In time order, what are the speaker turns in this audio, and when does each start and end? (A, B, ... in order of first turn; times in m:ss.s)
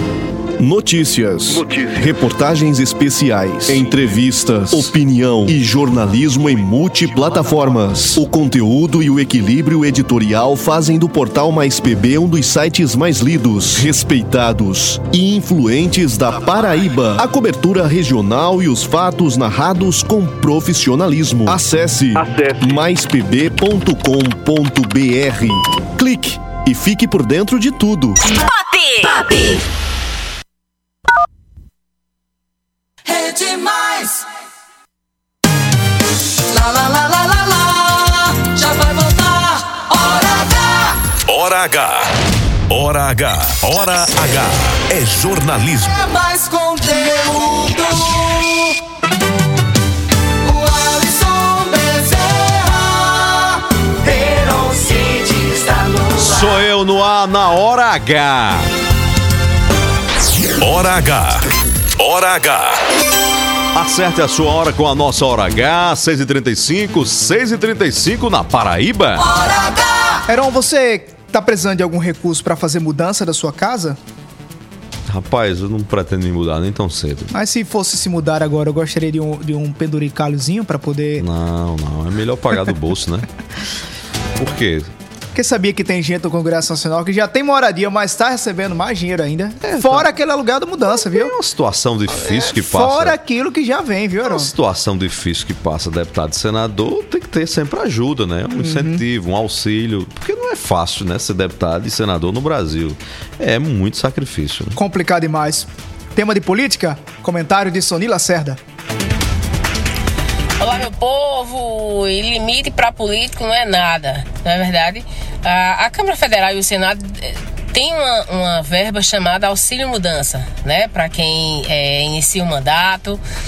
0:00.6-0:28.2 A
0:29.0-0:29.6 B
0:33.0-0:34.2 B
0:36.5-0:41.0 B
0:41.3-0:42.1 C
0:42.7-0:46.0 C
0:45.9-0:48.7 B
0:50.4-0:56.6 B
0:56.2-0:58.7 D
1:00.6-1:01.5 C
1:02.0-1:02.8 C
1:03.7-1:09.3 D
1:09.2-1:10.2 B
1:10.3-1:14.0 E
1:15.1-1:17.3 D
1:17.3-1:21.2 E
1:21.2-1:23.3 D
1:24.4-1:24.9 D
1:25.3-1:31.3 E
1:29.6-1:30.1 D
1:30.9-1:33.2 D
1:32.2-1:34.5 E
1:34.2-1:44.8 D
1:38.5-1:39.0 E
1:44.7-1:48.6 E
1:50.6-2:03.2 F